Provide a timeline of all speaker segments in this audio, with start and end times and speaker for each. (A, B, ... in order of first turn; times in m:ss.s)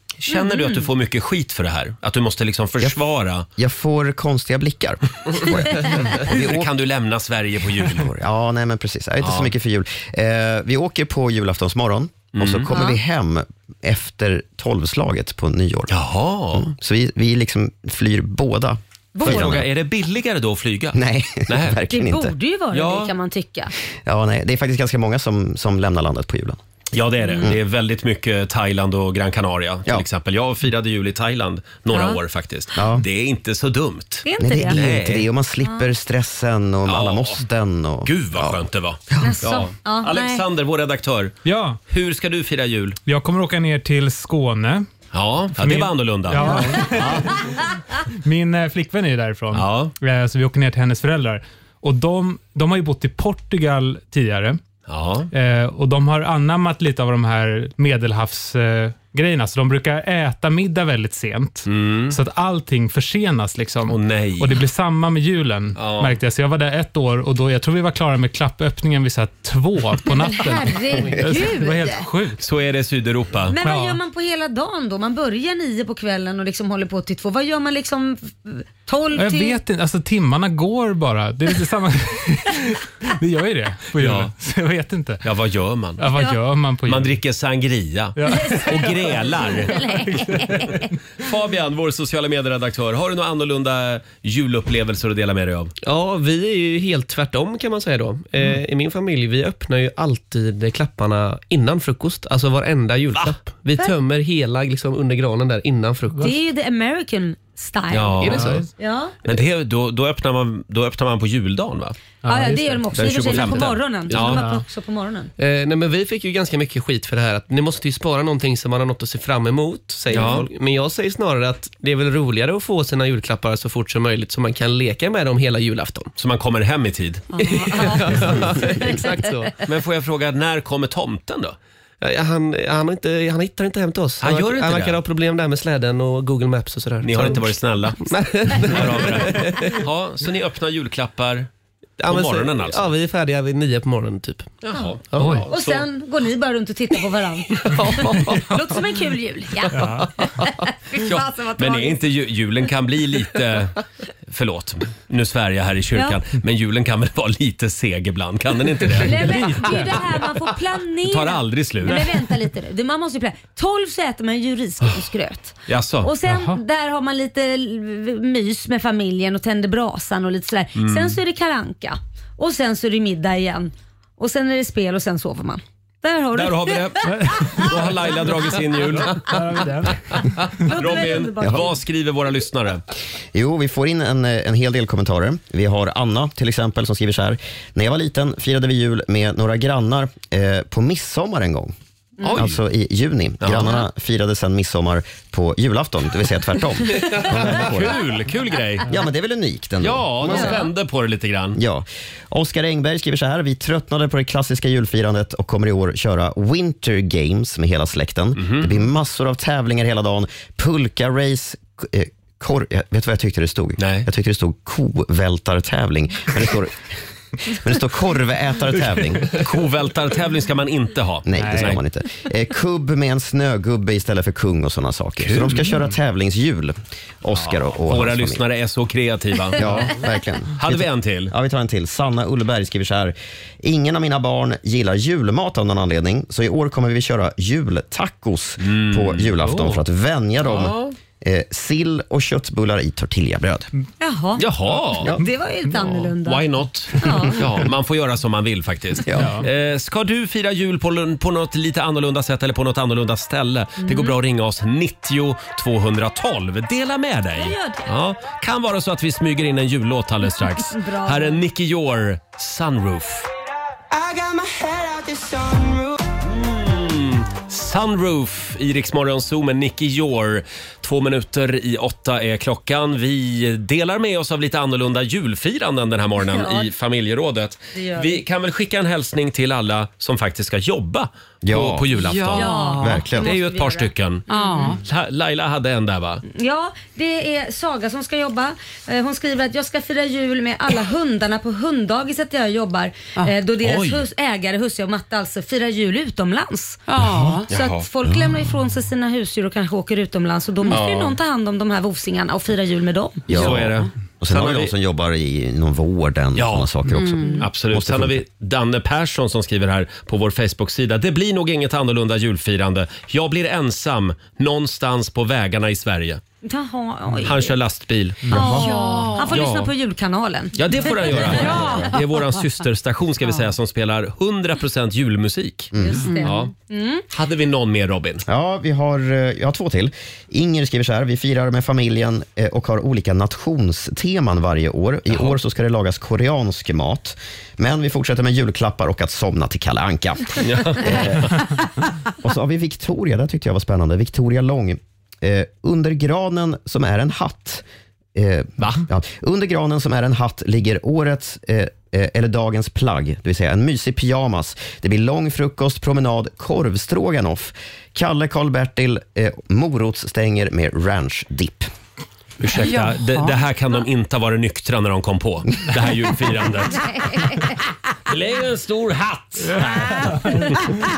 0:00.2-0:03.5 A
0:00.3-0:00.9 B
0:03.6-0:06.7 C
0:05.8-0:08.1 A
0:07.8-0:15.9 C
0:09.2-0:09.5 A
0:12.3-0:12.7 A
0:12.7-0:13.0 B
0:15.9-0:16.7 A
0:16.5-0:19.7 C
0:19.1-0:19.6 B
0:19.2-0:21.8 A
0:21.0-0:22.3 C
0:21.9-0:23.7 B
0:22.7-0:23.1 A
0:24.1-0:26.6 C
0:26.9-0:35.3 A
0:27.2-0:27.5 B
0:31.9-0:32.2 B
0:32.8-0:33.0 C
0:34.2-0:34.8 B
0:34.4-0:39.3 C
0:36.8-0:37.4 A
0:38.0-0:41.4 A
0:39.2-0:40.4 B
0:41.4-0:41.8 D
0:41.9-0:43.0 A
0:43.1-0:44.9 D
0:45.1-0:47.4 A
0:45.6-0:47.6 D
0:46.4-0:47.0 B
0:48.2-0:54.6 D
0:49.5-0:49.9 A
0:54.9-0:55.3 A
0:55.3-1:12.4 D
1:01.7-1:02.2 A
1:03.9-1:04.6 A
1:05.8-1:06.2 A
1:10.2-1:12.1 B
1:12.4-1:13.6 A
1:13.5-1:19.6 B
1:13.6-1:14.0 D
1:19.2-1:25.2 D
1:24.0-1:24.3 A
1:25.2-1:26.0 A
1:26.0-1:27.2 D
1:26.1-1:26.4 B
1:26.8-1:29.8 A
1:28.2-1:29.5 D
1:28.3-1:30.9 B
1:30.1-1:30.8 D
1:31.2-1:35.7 A
1:35.8-1:46.3 E
1:46.2-1:49.2 B
1:47.9-1:48.6 A
1:48.2-1:48.7 E
1:48.3-1:48.7 D
1:49.2-1:52.0 A
1:52.2-1:53.5 D
1:52.3-1:55.3 B
1:52.9-1:54.4 A
1:54.1-1:54.6 D
1:55.4-2:06.1 E
2:00.1-2:00.5 A
2:06.2-2:08.4 A
2:07.3-2:08.0 B
2:07.4-2:09.6 E
2:08.8-2:09.1 B
2:09.6-2:11.6 A
2:12.0-2:19.8 E
2:14.2-2:15.0 A
2:17.0-2:21.5 A
2:22.0-2:25.4 E
2:22.1-2:22.9 A
2:24.6-2:25.8 A
2:25.2-2:25.4 D
2:25.5-2:29.8 B
2:27.6-2:28.5 E
2:29.7-2:30.1 D
2:30.4-2:32.0 B
2:31.0-2:40.0 A
2:39.0-2:57.7 B
2:41.0-2:42.2 A
2:45.7-2:46.1 A
2:46.3-2:46.6 D
2:50.8-2:51.2 A
2:56.3-3:02.8 A
2:57.1-2:57.8 D
2:58.9-3:00.4 D
3:00.6-3:01.8 B
3:03.3-3:11.7 C
3:12.2-3:12.6 A
3:12.3-3:18.0 C
3:13.4-3:13.8 A
3:17.0-3:18.9 A
3:18.9-3:20.7 C
3:19.8-3:21.6 A
3:20.3-3:20.7 B
3:21.6-3:36.8 C
3:28.4-3:28.8 A
3:33.8-3:34.1 A
3:37.4-3:39.5 C
3:39.3-3:41.8 A
3:41.3-3:48.4 C
3:41.4-3:41.8 D
3:45.2-3:45.7 A
3:47.3-3:49.9 A
3:49.6-4:03.7 C
3:50.6-3:51.3 A
3:58.6-3:59.8 A
4:00.4-4:00.8 A
4:04.0-4:04.4 B
4:04.4-4:05.1 A
4:05.0-4:07.4 B
4:06.2-4:23.3 A
4:09.1-4:09.4 C
4:09.2-4:09.5 D
4:13.8-4:14.2 B
4:17.4-4:17.9 B
4:20.7-4:21.4 B
4:26.2-4:46.2 A
4:36.2-4:36.7 B
4:37.7-4:38.2 B
4:41.4-4:42.0 C
4:42.0-4:43.0 F
4:42.4-4:44.8 B
4:42.8-4:43.3 C
4:44.3-4:44.8 F
4:46.3-4:56.8 B
4:53.6-4:54.1 A
4:56.9-4:57.5 F
4:57.5-5:03.3 B
4:57.5-4:57.9 A
5:00.7-5:01.2 A
5:03.3-5:08.2 C
5:03.3-5:04.7 A
5:03.4-5:03.8 F
5:06.4-5:06.7 A
5:07.0-5:07.4 F
5:07.2-5:07.5 B
5:07.4-5:16.2 A
5:16.4-5:17.6 B
5:17.2-5:18.3 A
5:18.3-5:18.7 C
5:18.3-5:21.6 B
5:18.4-5:19.4 F
5:19.3-5:19.7 A
5:20.6-5:26.5 A
5:21.2-5:22.0 F
5:23.2-5:23.5 F
5:25.7-5:26.1 C
5:25.8-5:27.0 B
5:26.1-5:26.3 F
5:27.1-5:28.2 A
5:28.3-5:41.7 C
5:35.1-5:35.4 A
5:40.4-5:41.4 A
5:42.2-5:47.6 C
5:48.2-6:01.7 C
6:02.4-6:06.8 A
6:02.6-6:03.4 F
6:06.7-6:07.6 B
6:08.1-6:10.7 A
6:10.1-6:10.5 D